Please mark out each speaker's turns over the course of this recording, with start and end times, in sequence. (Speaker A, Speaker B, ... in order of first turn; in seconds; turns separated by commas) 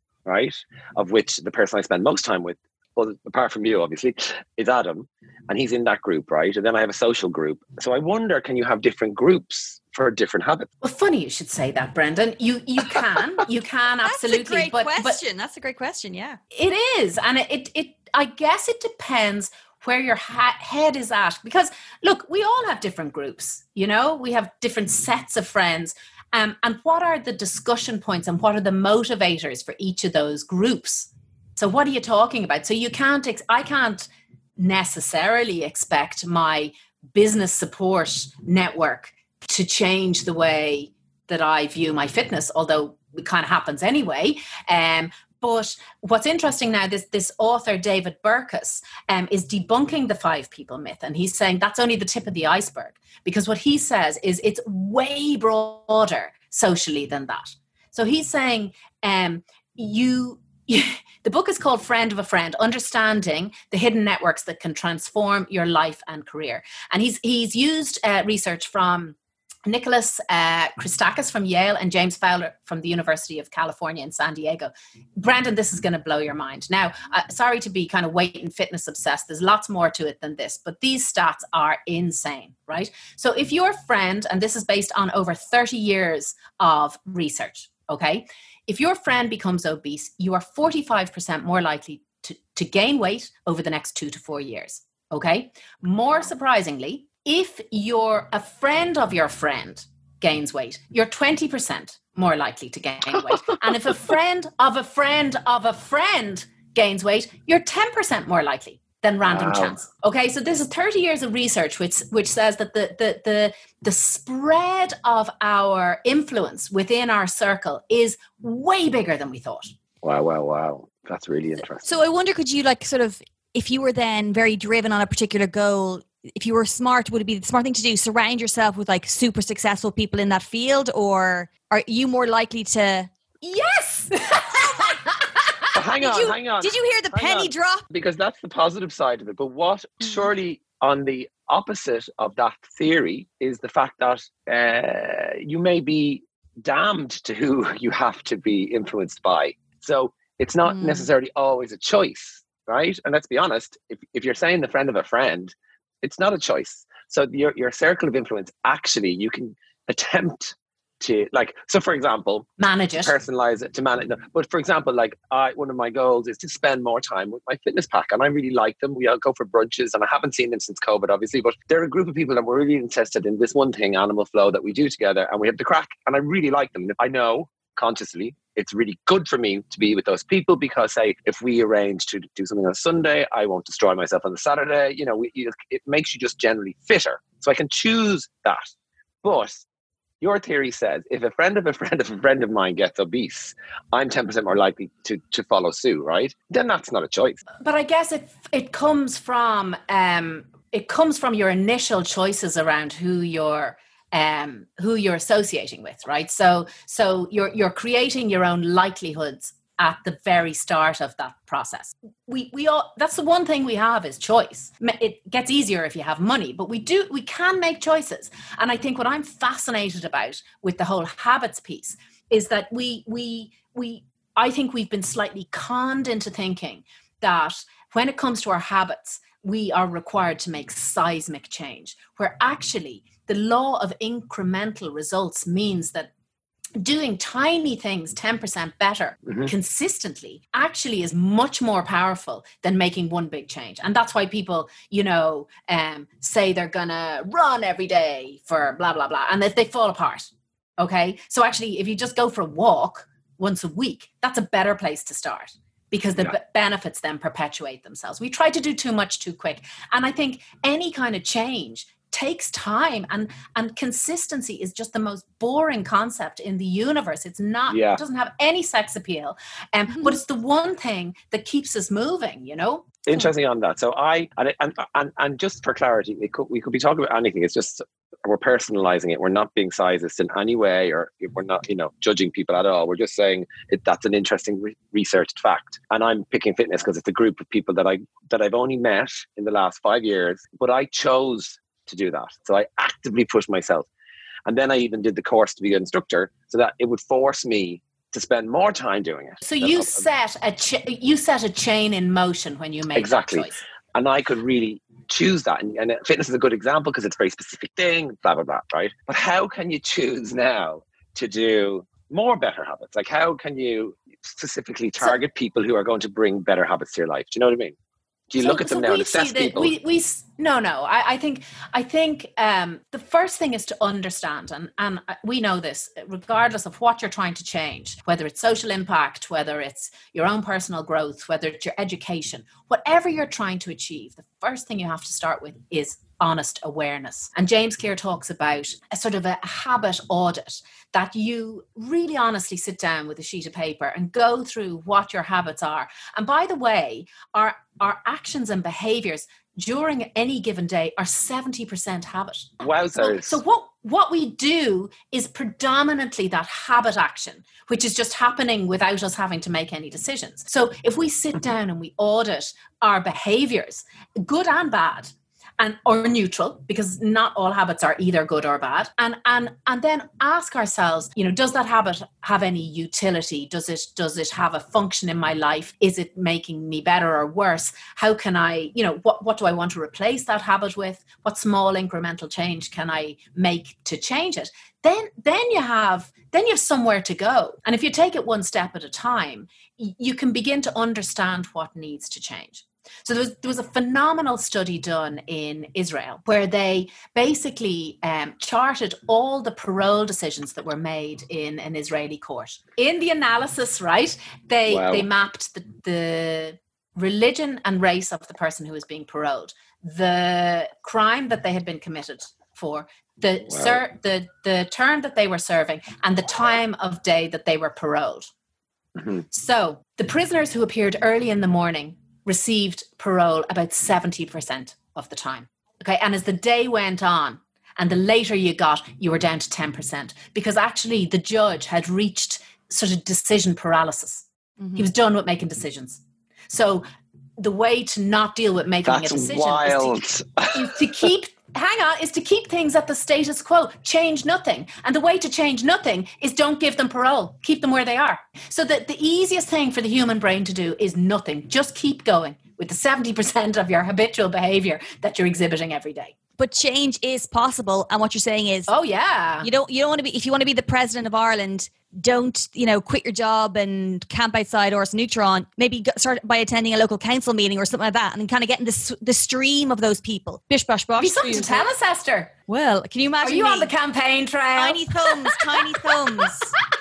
Speaker A: 0.2-10.7, Speaker B: 10.8-15.2, Speaker C: 14.0-16.4, Speaker B: 16.5-119.7, Speaker A: 109.2-109.8, Speaker A: 120.0-121.9, Speaker C: 121.8-133.1, Speaker B: 133.4-135.7, Speaker A: 135.7-188.7, Speaker C: 136.0-137.8, Speaker C: 150.8-151.1, Speaker B: 162.6-163.1, Speaker A: 189.2-189.6, Speaker A: 190.2-197.4, Speaker B: 197.6-236.1, Speaker B: 236.8-272.9, Speaker A: 267.7-268.0, Speaker A: 273.1-293.9, Speaker A: 294.4-300.0, Speaker B: 299.4-303.6, Speaker A: 302.9-317.8, Speaker A: 318.3-319.7, Speaker B: 318.4-418.3, Speaker A: 352.6-353.4, Speaker A: 404.7-405.1, Speaker A: 413.5-413.8, Speaker A: 419.0-419.2, Speaker B: 419.3-436.8, Speaker B: 437.4-440.0, Speaker A: 438.8-441.0, Speaker B: 440.5-456.1, Speaker C: 456.4-458.7, Speaker B: 458.7-459.5, Speaker C: 459.4-471.7, Speaker B: 471.0-472.3, Speaker C: 472.5-473.7, Speaker B: 473.2-475.8, Speaker C: 474.6-476.5